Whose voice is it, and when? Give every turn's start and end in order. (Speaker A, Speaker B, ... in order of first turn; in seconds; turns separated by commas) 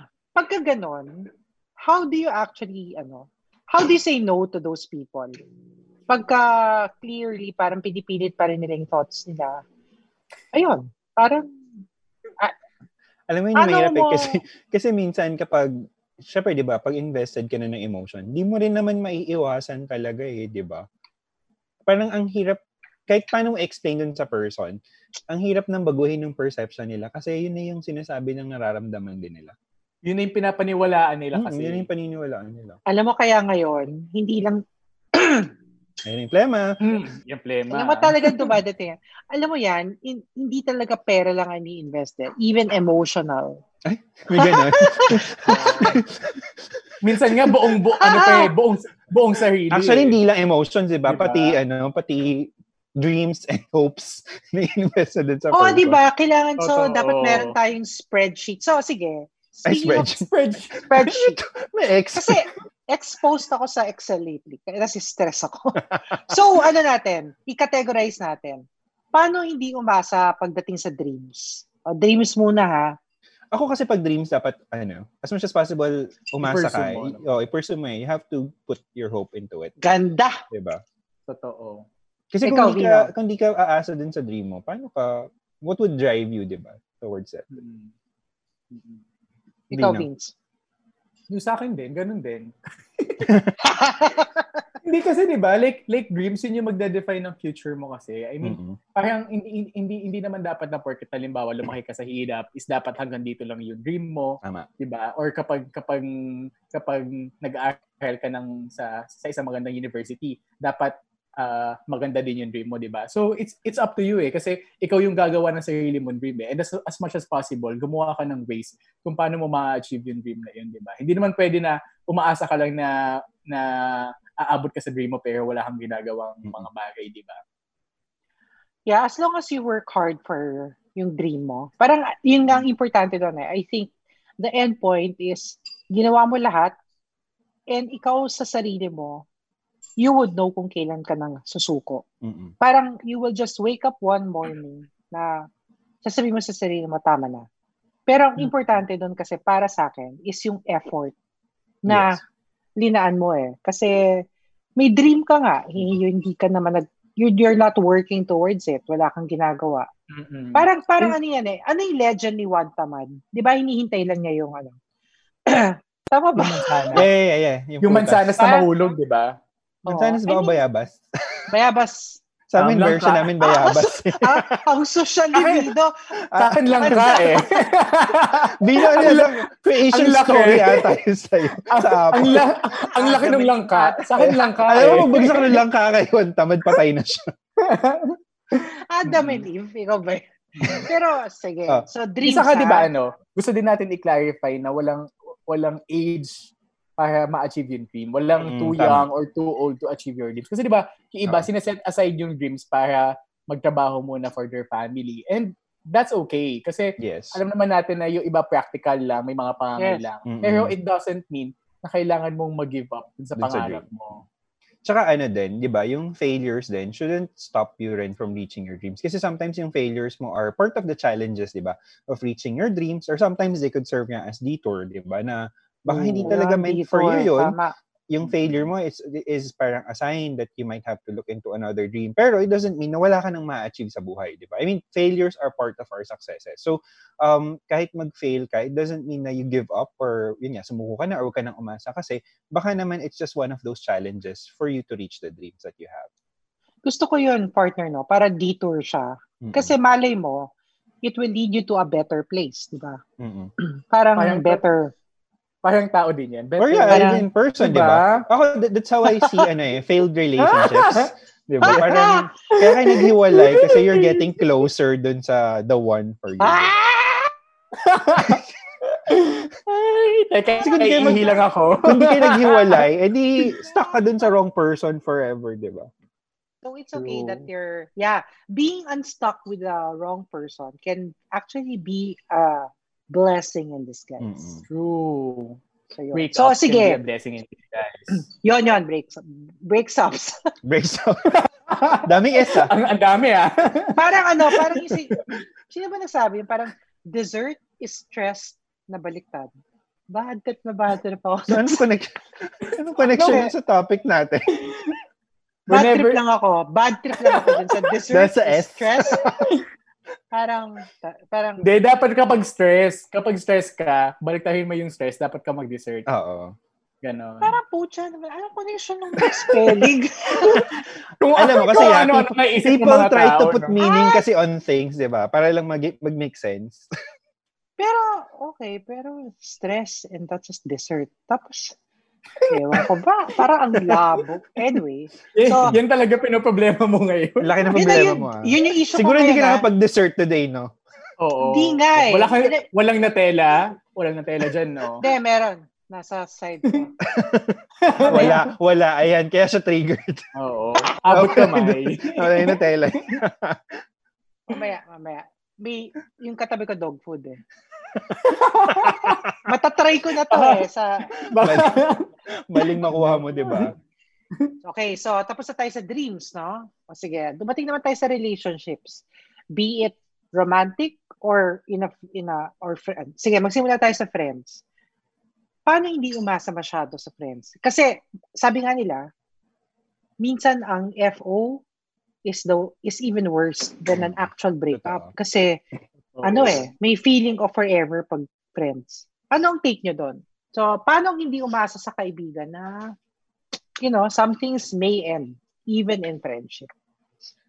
Speaker A: 0.3-1.3, Speaker A: 1.8-5.3, Speaker A: 6.1-9.6, Speaker A: 10.5-11.5, Speaker B: 13.3-20.9, Speaker A: 13.6-14.4, Speaker B: 21.9-29.5, Speaker C: 30.1-31.9, Speaker B: 31.4-32.8, Speaker A: 32.9-34.6, Speaker A: 35.1-35.5, Speaker B: 36.0-36.8, Speaker C: 36.8-38.5, Speaker A: 37.7-43.6, Speaker B: 43.9-46.5, Speaker A: 44.4-45.3, Speaker C: 45.5-46.0, Speaker C: 47.0-50.2, Speaker A: 48.0-48.5, Speaker B: 49.7-56.0, Speaker C: 51.0-51.6, Speaker A: 55.5-60.2, Speaker C: 56.6-57.5, Speaker B: 59.6-60.3, Speaker C: 60.2-60.8, Speaker B: 60.8-62.4, Speaker A: 60.8-61.4, Speaker A: 62.1-73.0, Speaker B: 73.5-79.8, Speaker C: 76.4-77.2, Speaker A: 79.8-80.4, Speaker B: 80.5-80.8, Speaker C: 81.3-81.9, Speaker B: 82.3-87.5, Speaker A: 82.4-83.1, Speaker C: 87.5-87.9, Speaker C: 88.7-89.0, Speaker B: 89.7-90.1, Speaker A: 89.7-90.3, Speaker C: 91.3-93.4, Speaker A: 93.6-94.5, Speaker C: 94.8-127.4, Speaker B: 98.4-98.8, Speaker B: 104.4-104.7, Speaker A: 128.9-136.8, Speaker A: 137.7-139.2, Speaker A: 140.0-142.0, Speaker B: 142.2-142.5, Speaker A: 142.6-145.5, Speaker A: 146.0-147.5, Speaker A: 148.1-151.2, Speaker A: 151.8-152.2, Speaker B: 151.8-152.2, Speaker A: 152.8-154.2, Speaker A: 154.8-159.9, Speaker C: 160.1-161.2, Speaker A: 160.5-164.8, Speaker A: 165.5-167.0, Speaker C: 166.4-167.1, Speaker B: 166.9-168.4, Speaker C: 167.8-169.4, Speaker A: 168.4-168.7, Speaker B: 169.9-171.3, Speaker A: 169.9-170.6, Speaker A: 171.5-172.2, Speaker B: 172.5-174.6, Speaker C: 172.6-173.3, Speaker A: 173.4-175.9, Speaker B: 176.3-177.1, Speaker C: 176.4-181.0, Speaker A: 176.7-177.4, Speaker B: 178.6-182.5, Speaker C: 181.7-185.6, Speaker A: 183.0-185.3, Speaker B: 184.7-187.3, Speaker C: 187.6-189.4, Speaker A: 188.9-190.2, Speaker A: 190.8-192.9, Speaker C: 192.2-214.2, Speaker B: 198.4-199.1, Speaker B: 207.0-207.4, Speaker B: 210.3-210.7, Speaker B: 213.4-213.8, Speaker B: 214.8-227.6, Speaker A: 225.9-227.7, Speaker B: 228.1-246.1, Speaker A: 246.8-250.5, Speaker B: 249.4-249.7, Speaker A: 251.0-253.0, Speaker B: 253.2-253.5, Speaker A: 253.6-254.9, Speaker C: 254.2-254.6, Speaker C: 255.6-258.2, Speaker B: 256.6-266.7, Speaker A: 256.9-257.2, Speaker C: 260.4-261.1, Speaker A: 261.6-262.3, Speaker C: 262.5-264.4, Speaker A: 266.4-267.3, Speaker C: 267.8-272.9, Speaker B: 270.6-275.9, Speaker A: 276.6-284.6, Speaker C: 276.9-277.5, Speaker B: 284.2-284.6, Speaker C: 284.7-285.6, Speaker A: 285.9-287.0, Speaker C: 286.1-288.2, Speaker A: 288.4-290.4, Speaker B: 290.6-291.4, Speaker C: 291.4-294.8, Speaker B: 291.9-292.7, Speaker A: 293.9-299.5, Speaker A: 300.1-301.8, Speaker B: 301.5-304.6, Speaker C: 303.2-303.4, Speaker A: 303.2-303.5, Speaker C: 304.7-305.0, Speaker C: 305.7-306.2, Speaker A: 305.7-309.2, Speaker C: 307.2-307.9, Speaker B: 308.1-309.5, Speaker A: 310.3-311.6, Speaker C: 311.6-316.1, Speaker B: 316.1-316.6, Speaker C: 317.0-317.5, Speaker A: 317.4-320.7, Speaker C: 319.2-323.8, Speaker B: 321.3-326.9, Speaker A: 323.8-324.2, Speaker A: 327.8-331.8, Speaker C: 332.4-332.9, Speaker A: 332.5-335.8, Speaker C: 333.8-334.0, Speaker C: 335.4-338.1, Speaker B: 337.4-340.7, Speaker A: 337.7-339.7, Speaker C: 341.2-345.0, Speaker A: 341.4-342.6, Speaker A: 345.0-346.9, Speaker B: 347.1-350.3, Speaker C: 347.8-348.4, Speaker A: 348.0-348.4, Speaker C: 350.4-353.2, Speaker B: 351.1-353.8, Speaker A: 354.5-357.4, Speaker C: 358.2-359.2, Speaker A: 359.4-361.1, Speaker C: 360.3-363.7, Speaker B: 361.4-361.8, Speaker B: 362.5-363.8, Speaker A: 364.6-369.0, Speaker A: 369.5-374.6, Speaker A: 375.7-379.1, Speaker A: 380.2-381.6, Speaker A: 382.2-385.6, Speaker B: 383.9-385.1, Speaker C: 386.2-386.7, Speaker A: 386.2-392.9, Speaker A: 393.8-396.7